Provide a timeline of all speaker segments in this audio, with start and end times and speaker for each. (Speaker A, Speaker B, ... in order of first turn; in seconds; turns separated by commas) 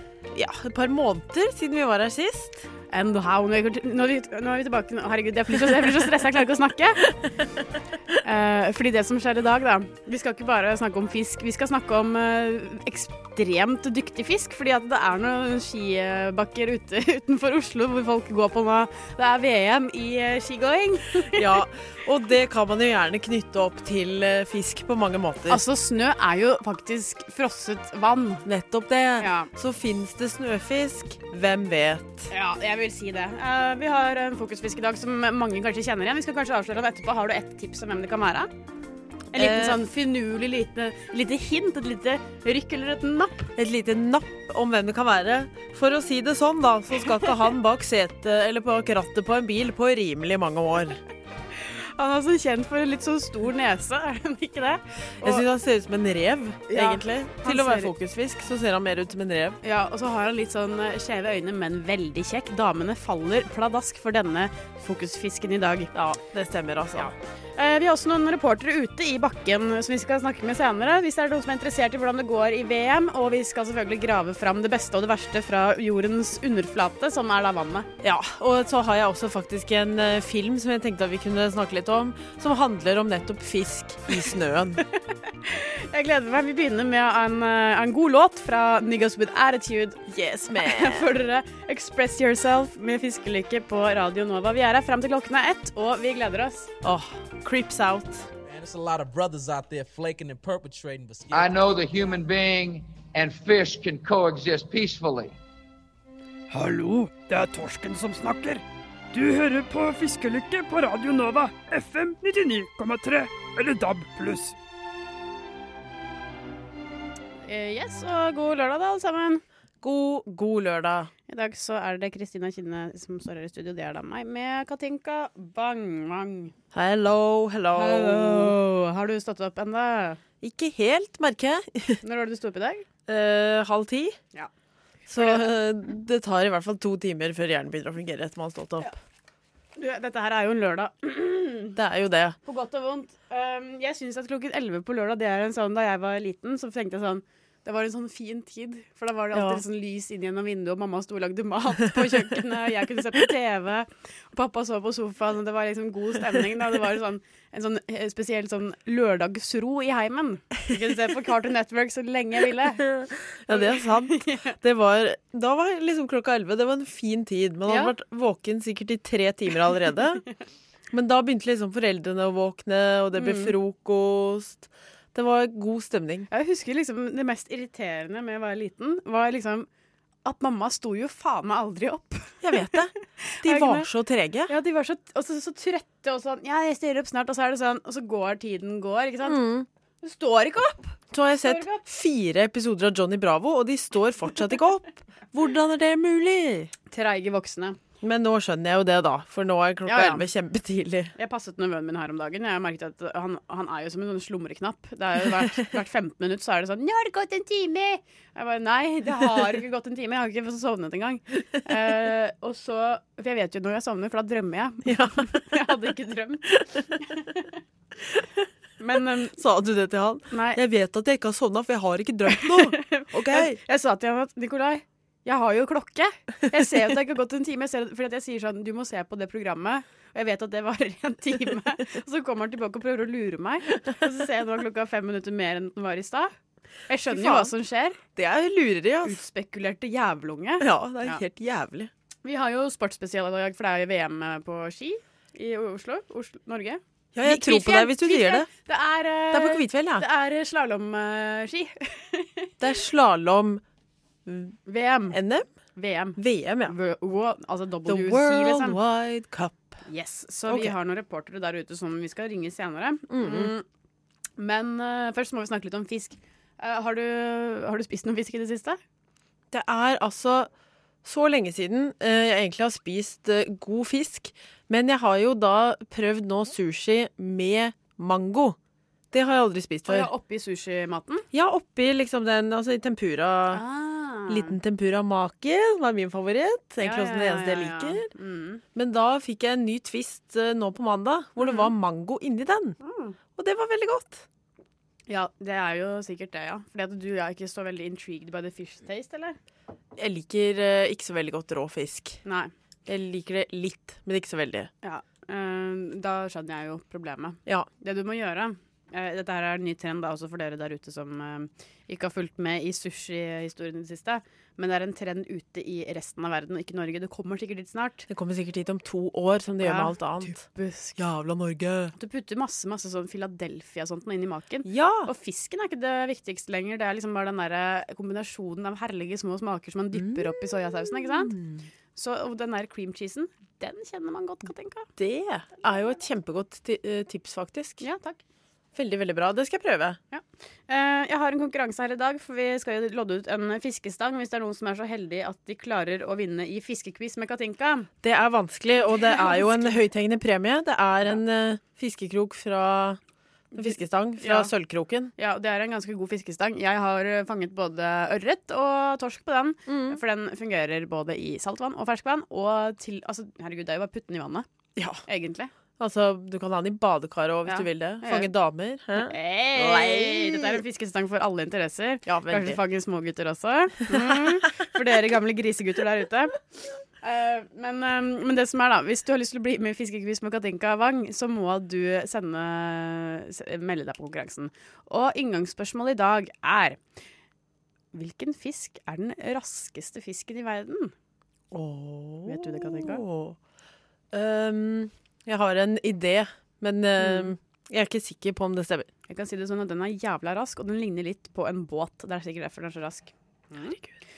Speaker A: 0.3-2.7, Speaker B: 2.9-7.1, Speaker B: 8.2-21.4, Speaker A: 21.3-25.6, Speaker B: 25.5-28.4, Speaker A: 28.4-32.3, Speaker B: 29.2-29.5, Speaker B: 32.3-38.5, Speaker B: 39.3-43.5, Speaker A: 39.3-39.8, Speaker A: 43.6-51.0, Speaker B: 51.5-55.5, Speaker A: 55.2-59.6, Speaker B: 56.7-57.9, Speaker B: 59.6-65.9, Speaker A: 65.9-67.1, Speaker B: 67.0-77.9, Speaker A: 78.0-84.8, Speaker B: 85.4-96.7, Speaker A: 90.1-91.1, Speaker A: 96.8-98.3, Speaker C: 98.5-101.8, Speaker D: 101.3-105.4, Speaker E: 106.5-114.6, Speaker B: 117.5-119.4, Speaker A: 119.8-121.1, Speaker B: 121.3-126.5, Speaker A: 126.7-128.6, Speaker B: 127.7-130.2, Speaker A: 130.4-132.0, Speaker B: 132.0-132.8, Speaker A: 133.1-134.2, Speaker A: 135.1-138.9, Speaker B: 135.2-135.5, Speaker B: 139.8-141.8, Speaker A: 141.8-142.4, Speaker B: 142.4-162.8, Speaker A: 149.3-149.6, Speaker A: 162.8-170.2, Speaker B: 163.5-164.5, Speaker B: 167.7-167.9, Speaker A: 170.9-176.3, Speaker B: 173.2-173.5, Speaker B: 176.3-179.7, Speaker B: 180.2-182.4, Speaker A: 182.4-184.5, Speaker B: 183.2-183.9, Speaker B: 184.5-189.4, Speaker A: 189.2-189.7, Speaker B: 190.0-191.8, Speaker A: 191.1-196.7, Speaker B: 196.9-197.8, Speaker A: 198.0-201.1, Speaker B: 199.9-200.2, Speaker B: 201.2-217.5, Speaker A: 214.8-215.6, Speaker A: 216.5-216.8, Speaker B: 218.8-219.4, Speaker A: 219.3-223.6, Speaker B: 220.3-220.6, Speaker B: 222.3-236.3, Speaker B: 236.9-238.0, Speaker A: 237.1-237.5, Speaker A: 238.2-239.2, Speaker B: 239.0-241.2, Speaker A: 240.6-241.9, Speaker B: 242.2-252.5, Speaker A: 247.1-248.5, Speaker A: 249.3-250.1, Speaker A: 252.6-253.6, Speaker A: 254.3-254.6, Speaker B: 254.7-255.2, Speaker A: 255.1-255.5, Speaker B: 255.8-258.8, Speaker A: 256.2-256.8, Speaker A: 257.9-259.8, Speaker B: 259.9-263.6, Speaker A: 260.5-260.7, Speaker A: 263.1-263.5, Speaker B: 264.4-268.8, Speaker A: 269.5-270.5, Speaker A: 271.0-278.6, Speaker A: 279.1-280.1, Speaker B: 279.9-281.2, Speaker A: 281.3-283.6, Speaker B: 283.5-284.6, Speaker A: 284.3-288.1, Speaker B: 286.8-288.6, Speaker A: 288.8-292.8, Speaker B: 291.4-291.7, Speaker B: 292.8-293.2, Speaker A: 293.4-294.3, Speaker B: 295.1-299.4, Speaker A: 300.0-302.2, Speaker B: 302.2-302.5, Speaker A: 302.9-304.7, Speaker B: 304.8-318.1, Speaker A: 318.1-320.4, Speaker B: 319.6-321.0, Speaker A: 321.0-321.9, Speaker B: 322.0-331.4, Speaker A: 324.6-325.1, Speaker A: 329.9-331.6, Speaker B: 331.9-334.9, Speaker A: 335.0-337.8, Speaker B: 337.8-338.2, Speaker A: 338.8-340.0, Speaker B: 340.1-347.9, Speaker A: 348.0-353.0, Speaker B: 348.9-349.8, Speaker B: 353.5-354.5, Speaker A: 353.6-355.1, Speaker B: 355.2-364.5, Speaker A: 359.7-360.0, Speaker A: 364.8-365.0, Speaker B: 365.1-365.5, Speaker A: 365.8-370.6, Speaker B: 367.5-368.3, Speaker B: 369.0-376.4, Speaker A: 372.1-372.6, Speaker A: 373.9-374.4, Speaker B: 377.0-386.8, Speaker B: 387.9-390.9, Speaker A: 391.5-393.4, Speaker B: 392.2-393.1, Speaker A: 394.1-398.9, Speaker B: 397.0-397.3, Speaker B: 399.1-403.8